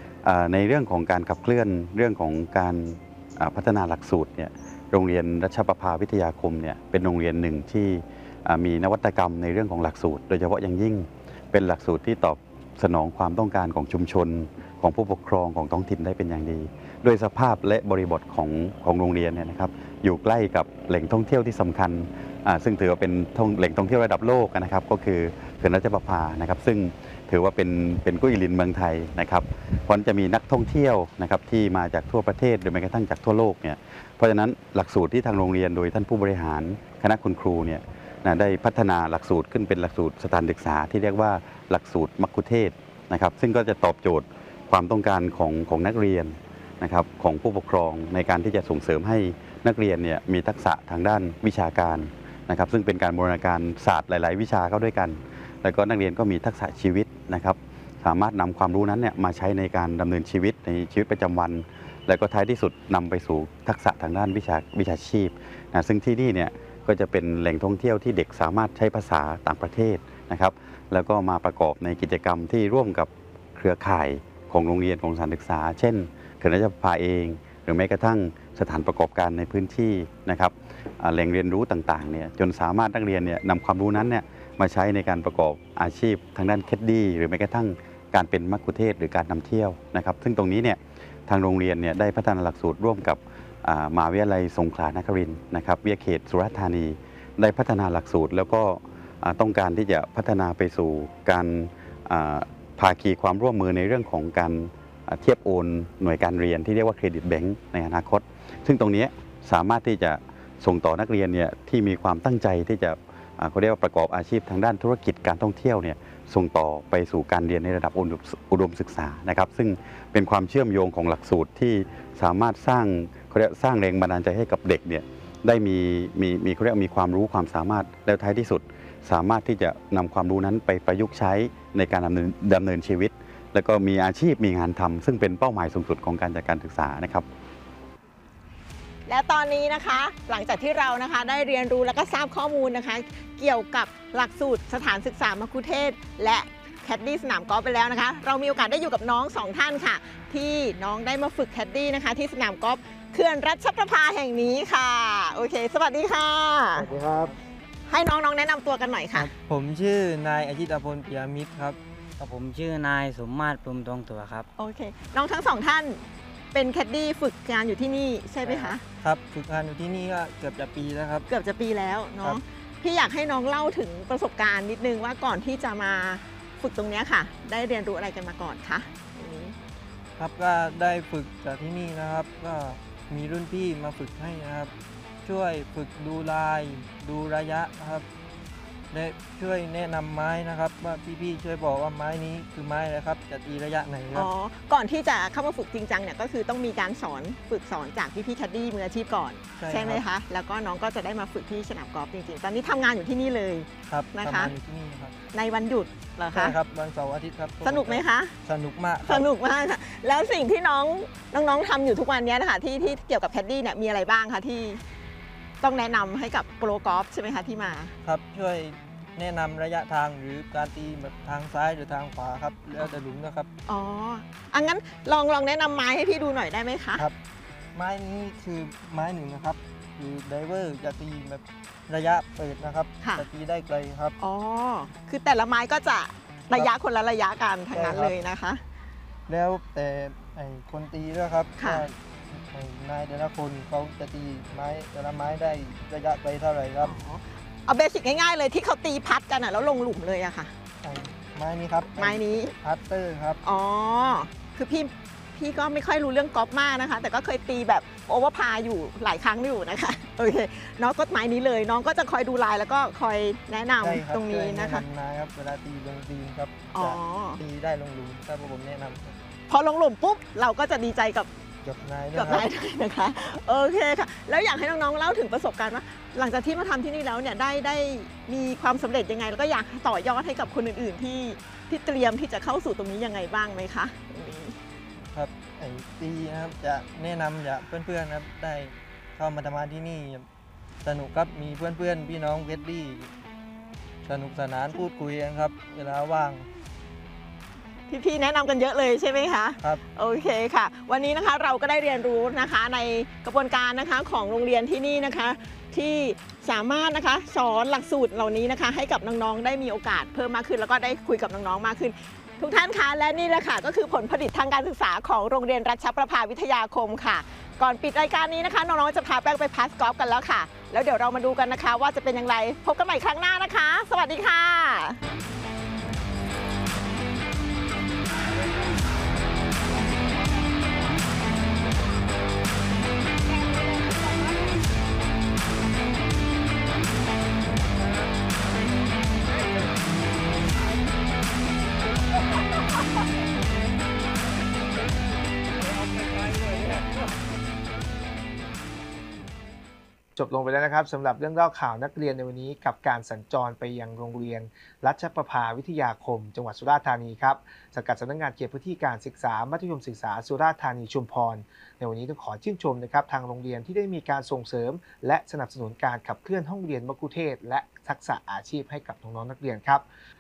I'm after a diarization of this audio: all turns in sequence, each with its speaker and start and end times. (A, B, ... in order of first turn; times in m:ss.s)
0:00.2-2:17.3 A
2:19.1-2:36.9 B
2:36.8-2:37.4 C
2:37.9-2:39.3 B
2:39.1-2:41.8 C
2:42.2-2:44.5 D
2:44.6-2:48.8 B
2:48.4-2:51.3 C
2:51.3-2:59.6 B
3:00.2-3:04.7 C
3:05.2-3:08.1 C
3:08.9-3:14.3 C
3:14.1-3:24.5 B
3:19.6-3:20.0 C
3:23.9-3:25.2 C
3:25.3-3:26.6 B
3:26.3-3:29.3 C
3:27.6-3:28.4 B
3:29.0-3:34.8 B
3:35.6-3:37.9 B
3:38.0-3:43.5 C
3:43.7-3:47.0 B
3:47.8-3:54.2 C
3:53.0-3:53.3 B
3:54.2-3:58.6 B
3:57.7-3:58.1 C
3:59.3-4:06.9 C
4:01.6-4:01.9 B
4:06.8-4:10.5 B
4:10.8-4:13.4 C
4:12.0-4:12.6 B
4:13.4-4:24.8 B
4:23.8-4:29.2 C
4:26.7-4:27.4 B
4:29.5-4:31.3 B
4:31.6-4:32.5 C
4:32.1-4:44.6 B
4:45.1-4:50.3 C
4:50.8-4:53.1 C
4:54.0-4:56.5 C
4:57.9-5:25.0 B
5:33.4-5:34.0 B
5:50.2-6:09.8 E